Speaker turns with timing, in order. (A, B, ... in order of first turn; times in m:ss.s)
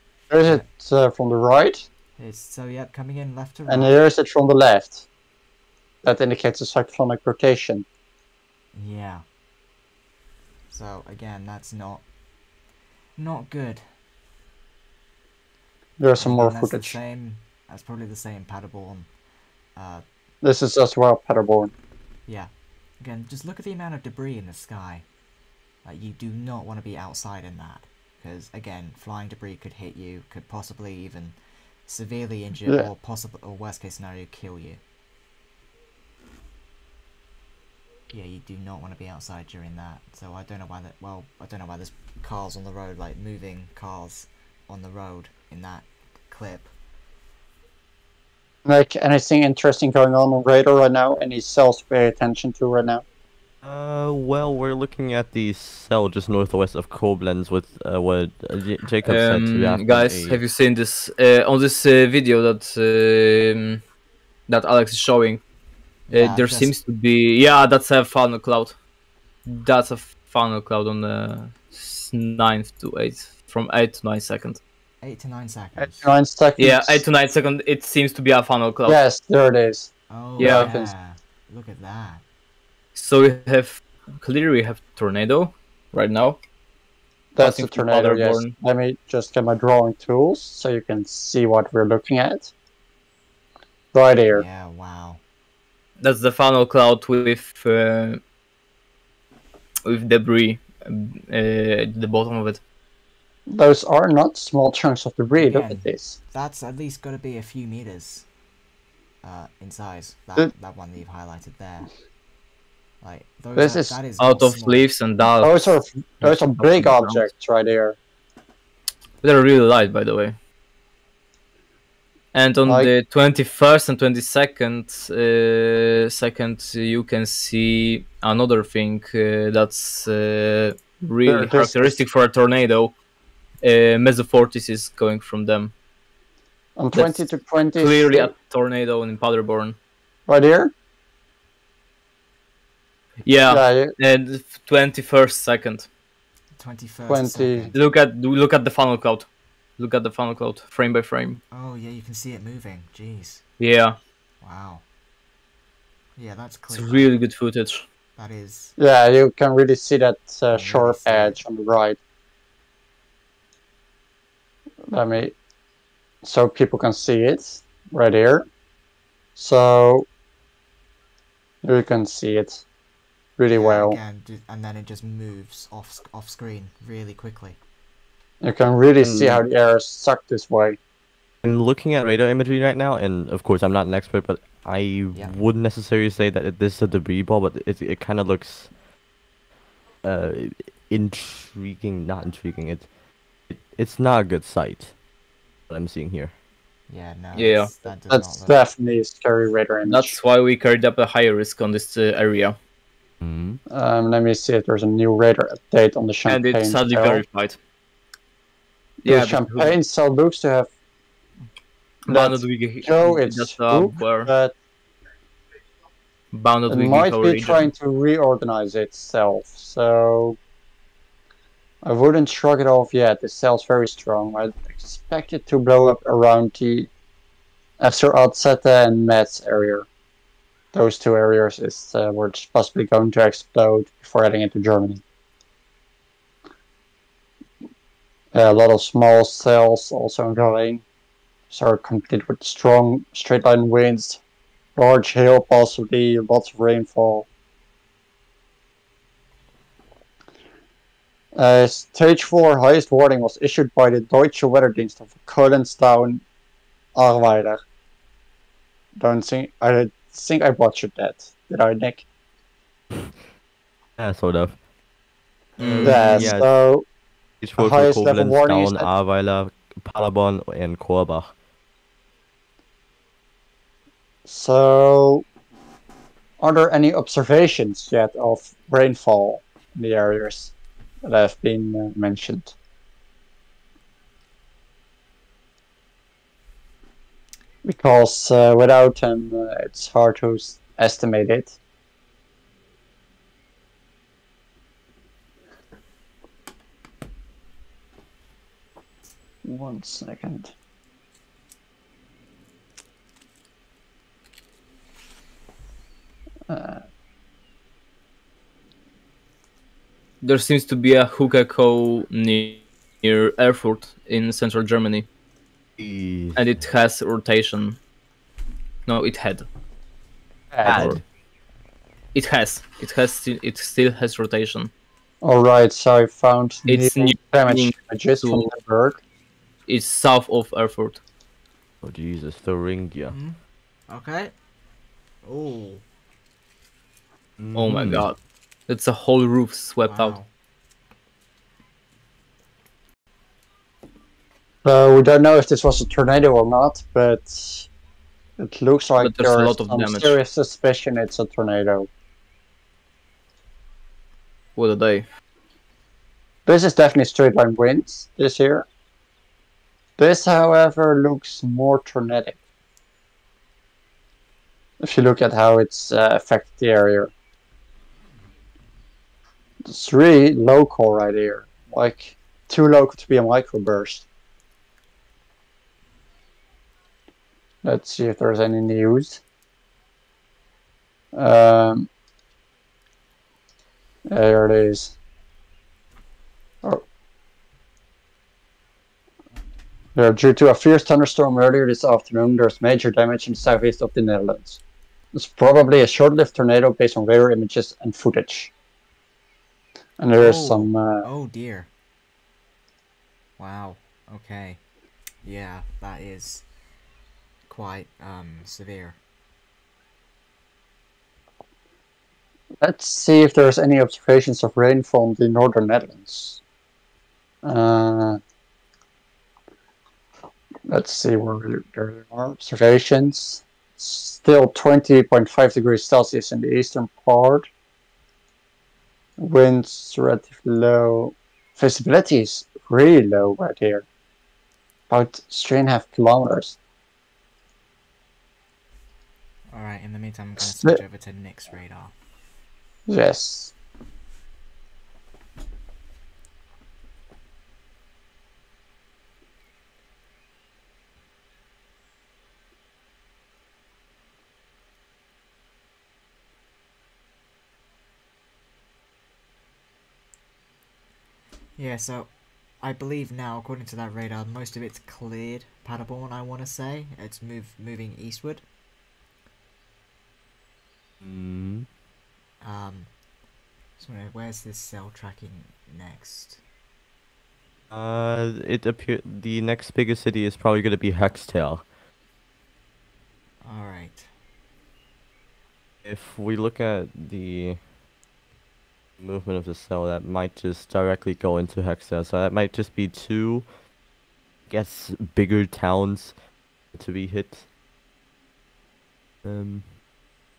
0:00.3-0:01.9 A
0:02.2-0:03.9 B
0:03.7-0:05.0 A
0:06.0-0:07.8 A
0:08.7-0:09.2 B
0:10.7-0:12.0 B
0:13.2-0:13.9 B
0:16.0-0:17.0 A
0:16.2-0:19.1 B
0:19.7-0:20.0 B
0:20.4-0:21.7 A
0:22.2-0:25.0 B
0:25.8-0:34.8 B
0:38.1-0:46.7 B
0:48.6-0:53.0 A
0:53.6-1:00.4 C
0:59.0-1:03.8 D
1:04.5-1:05.4 D
1:06.1-1:06.7 B
1:06.1-1:08.8 D
1:09.4-1:14.6 D
1:15.0-1:16.1 B
1:15.8-1:17.0 A
1:16.6-1:19.0 D
1:18.9-1:20.9 A
1:20.1-1:22.2 B
1:20.4-1:20.7 D
1:22.9-1:26.4 D
1:27.3-1:32.5 A
1:27.4-1:28.5 D
1:33.9-1:34.4 A
1:34.3-1:35.2 B
1:36.0-1:38.2 D
1:39.8-1:42.6 D
1:43.5-1:46.2 A
1:45.4-1:48.3 B
1:49.2-1:51.9 B
1:53.0-1:54.9 B
1:53.5-1:54.0 A
1:54.2-1:55.6 D
1:55.4-1:58.0 A
1:56.2-1:57.2 D
1:59.2-2:00.4 D
2:02.3-2:12.9 D
2:02.6-2:02.9 A
2:11.2-2:12.0 A
2:13.6-2:15.7 D
2:16.8-2:18.3 A
2:16.9-2:19.8 D
2:20.3-2:20.7 A
2:23.2-2:25.9 D
2:23.5-2:23.9 A
2:26.6-2:27.8 B
2:27.1-2:27.7 A
2:27.7-2:31.4 D
2:31.5-2:33.4 B
2:33.6-2:34.0 D
2:34.4-2:34.8 B
2:36.2-2:37.1 B
2:36.7-2:37.9 D
2:38.1-2:38.8 B
2:38.8-2:42.0 A
2:40.5-2:41.4 B
2:44.9-2:45.3 A
2:46.2-2:48.5 A
2:49.4-2:50.1 A
2:51.6-2:52.6 A
2:53.4-2:54.0 A
2:53.5-2:57.6 B
2:58.4-3:00.8 A
2:59.0-2:59.4 C
3:01.4-3:08.7 C
3:10.0-3:12.9 C
3:13.5-3:14.9 C
3:15.7-3:16.3 C
3:16.9-3:18.6 B
3:17.3-3:17.7 D
3:18.1-3:20.2 A
3:19.8-3:22.6 D
3:23.2-3:23.6 C
3:23.7-3:27.2 A
3:26.3-3:27.6 D
3:29.0-3:29.7 D
3:29.0-3:30.7 A
3:32.0-3:34.3 D
3:32.1-3:34.5 A
3:36.3-3:37.7 D
3:36.7-3:40.4 A
3:41.8-3:46.9 A
3:47.8-3:49.8 A
3:50.7-3:55.0 A
3:58.3-4:00.8 A
4:01.5-4:04.2 A
4:04.8-4:07.3 A
4:11.3-4:16.2 A
4:16.9-4:17.6 A
4:19.0-4:22.0 A
4:24.0-4:24.6 C
4:25.6-4:26.3 D
4:25.6-4:26.5 C
4:25.8-4:26.8 A
4:27.4-4:31.3 C
4:27.6-4:28.9 A
4:34.3-4:35.2 A
4:36.4-4:40.5 A
4:41.0-4:42.5 A
4:47.6-4:51.6 A
4:59.4-5:00.5 A
5:06.5-5:06.8 A
5:10.2-5:15.1 D
5:15.8-5:16.6 C
5:16.3-5:17.8 D
5:18.8-5:19.5 D
5:20.5-5:21.0 A
5:20.6-5:21.0 D
5:20.6-5:21.0 C
5:22.1-5:24.7 D
5:25.2-5:29.0 A
5:26.7-5:28.4 D
5:29.7-5:31.0 D
5:31.8-5:33.1 C
5:33.1-5:34.3 B
5:35.2-5:35.8 B
5:37.4-5:38.1 C
5:37.5-5:38.2 D
5:38.7-5:40.2 D
5:39.9-5:40.3 B
5:44.6-5:47.7 A
5:48.4-5:51.9 A
5:49.0-5:50.2 D
5:54.6-5:55.0 D
5:56.4-5:58.6 A
6:00.0-6:02.4 A
6:04.8-6:07.1 A
6:09.6-6:14.0 A
6:17.6-6:19.2 A
6:21.1-6:21.9 A
6:24.1-6:25.0 A
6:30.0-6:34.6 A
6:35.1-6:38.5 A
6:40.0-6:41.0 A
6:40.2-6:41.7 B
6:43.4-6:44.6 B
6:45.2-6:46.4 B
6:47.5-6:49.0 B
6:52.6-6:56.4 A
6:57.4-6:58.2 A
7:00.7-7:07.5 A
7:09.2-7:13.8 A
7:14.9-7:16.6 A
7:19.5-7:21.9 B
7:20.4-7:20.8 A
7:22.9-7:23.5 A
7:41.6-7:48.4 B
7:51.0-7:51.7 C
7:52.4-7:52.9 B
7:53.8-7:56.4 B
7:57.7-8:01.6 C
8:03.4-8:04.1 B
8:05.8-8:07.6 C
8:09.0-8:13.5 C
8:14.5-8:16.1 C
8:16.7-8:17.4 C
8:19.2-8:19.7 C